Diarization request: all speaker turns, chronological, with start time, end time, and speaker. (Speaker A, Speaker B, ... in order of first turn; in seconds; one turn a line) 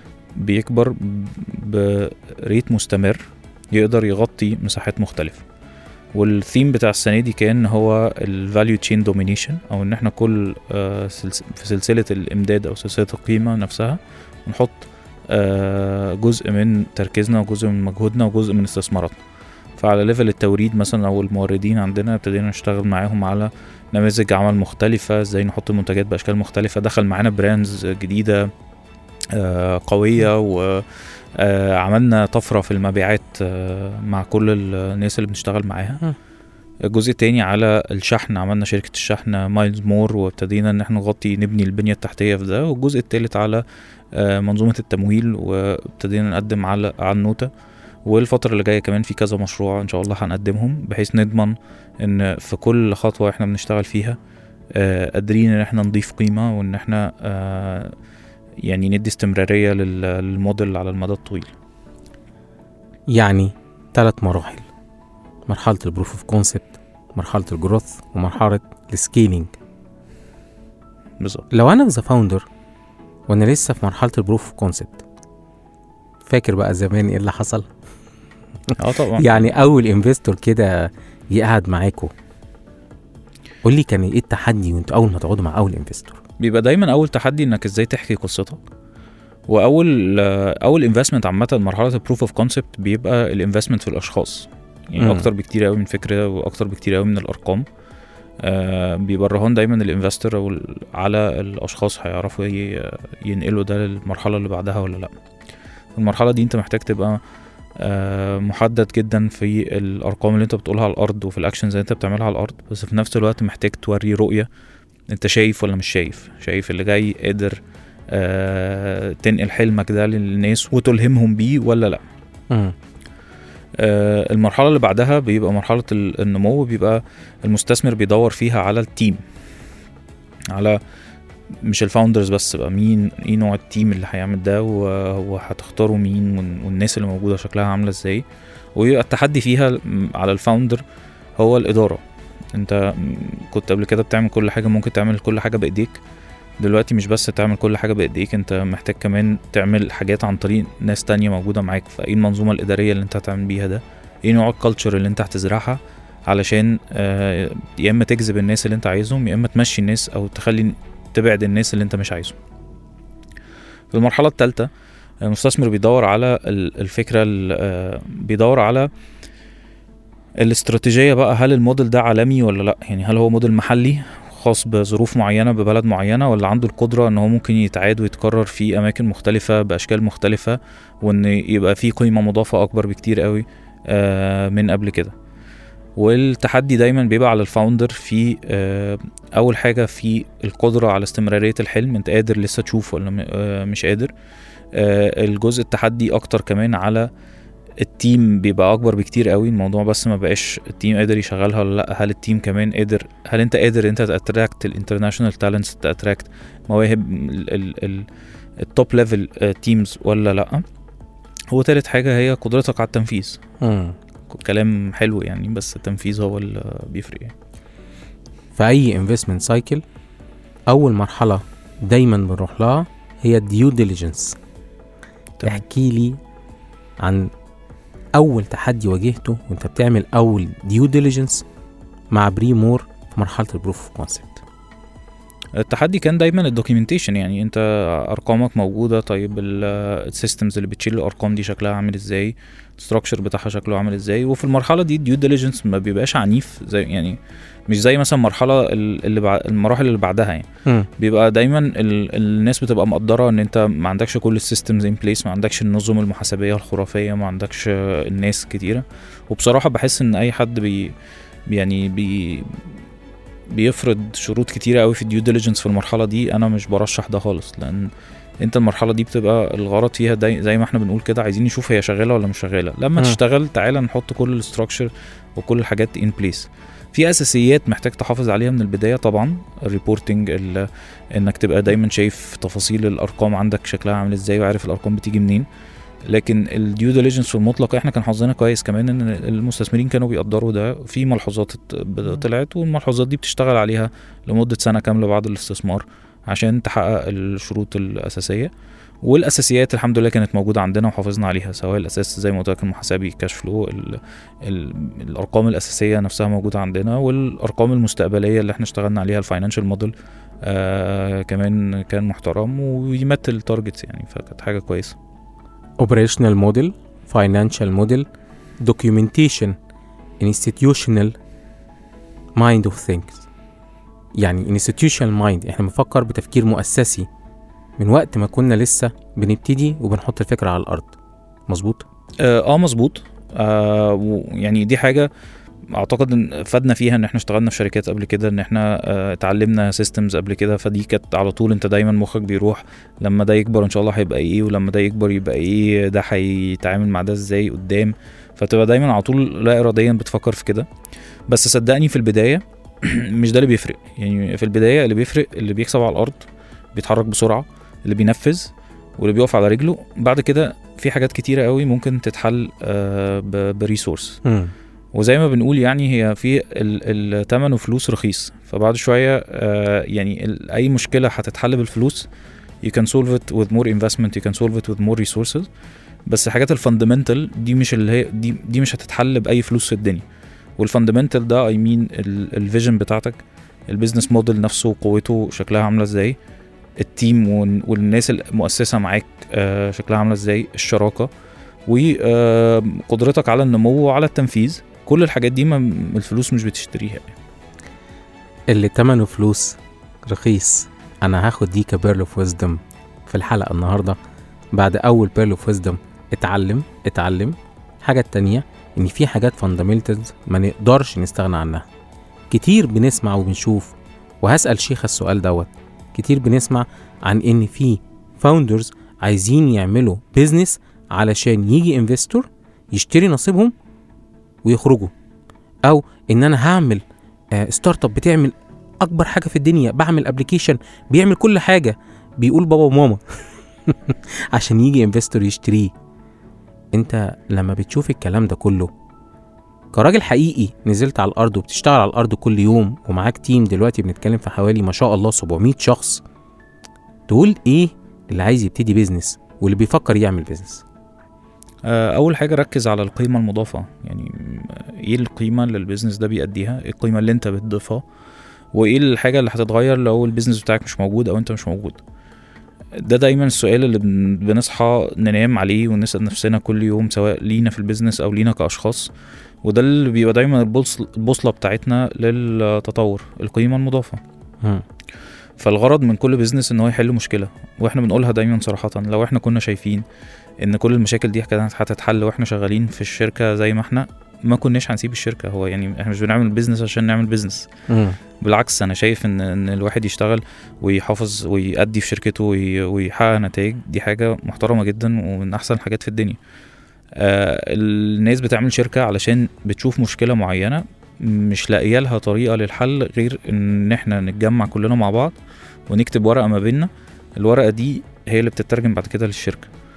Speaker A: 0.4-5.4
Speaker A: 6.1-19.1
Speaker A: 19.8-28.5
Speaker A: 29.3-36.0
Speaker A: 36.9-47.5
Speaker A: 48.0-54.2
Speaker A: 54.7-58.0
Speaker A: 58.6-61.5
Speaker B: 63.1-64.7
Speaker B: 65.5-69.5
Speaker A: 71.2-71.5
Speaker B: 71.5-72.5
Speaker B: 73.3-75.0
Speaker B: 76.2-77.7
Speaker B: 78.7-82.1
Speaker A: 78.7-79.5
Speaker B: 83.6-86.2
Speaker A: 86.4-88.6
Speaker A: 89.5-97.7
Speaker B: 95.0-95.3
Speaker A: 98.4-105.1
Speaker A: 105.9-107.2
Speaker A: 107.8-114.5
Speaker A: 115.1-122.0
Speaker B: 122.5-122.7
Speaker A: 123.8-129.2
Speaker A: 130.5-130.8
Speaker A: 131.6-138.2
Speaker A: 138.8-140.8
Speaker A: 141.4-142.0
Speaker A: 142.5-146.0
Speaker A: 146.6-162.4
Speaker A: 163.9-164.7
Speaker A: 165.2-168.9
Speaker A: 170.4-185.1
Speaker A: 185.9-194.1
Speaker A: 194.7-197.1
Speaker A: 197.8-208.1
Speaker A: 208.6-210.6
Speaker A: 211.5-213.4
Speaker B: 213.6-213.9
Speaker A: 214.3-217.3
Speaker B: 218.5-219.8
Speaker B: 220.7-224.4
Speaker B: 225.4-226.2
Speaker B: 227.0-227.3
Speaker B: 228.1-231.4
Speaker B: 232.1-234.4
Speaker A: 235.5-250.5
Speaker A: 251.0-260.9
Speaker A: 261.5-262.7
Speaker A: 263.5-285.5
Speaker A: 286.1-298.5
Speaker A: 299.0-314.9
Speaker B: 315.8-318.1
Speaker B: 318.6-319.6
Speaker B: 320.2-321.2
Speaker B: 322.4-323.2
Speaker B: 324.2-327.1
Speaker B: 327.8-330.9
Speaker B: 331.5-331.8
Speaker A: 332.2-335.1
Speaker A: 335.7-350.7
Speaker A: 351.3-364.2
Speaker B: 364.2-364.5
Speaker A: 364.9-372.1
Speaker A: 372.6-375.5
Speaker A: 376.1-380.0
Speaker A: 380.6-386.2
Speaker A: 386.8-391.1
Speaker A: 391.6-397.1
Speaker B: 398.5-404.0
Speaker B: 404.5-411.6
Speaker B: 412.3-423.5
Speaker B: 424.4-424.9
Speaker B: 425.6-435.7
Speaker B: 436.7-438.7
Speaker B: 439.7-446.0
Speaker B: 447.1-450.6
Speaker A: 451.6-457.8
Speaker A: 458.5-461.8
Speaker A: 462.8-468.9
Speaker A: 469.4-474.0
Speaker A: 475.4-479.8
Speaker A: 480.4-487.5
Speaker B: 487.7-488.0
Speaker A: 488.2-496.2
Speaker A: 496.9-505.1
Speaker A: 505.7-509.5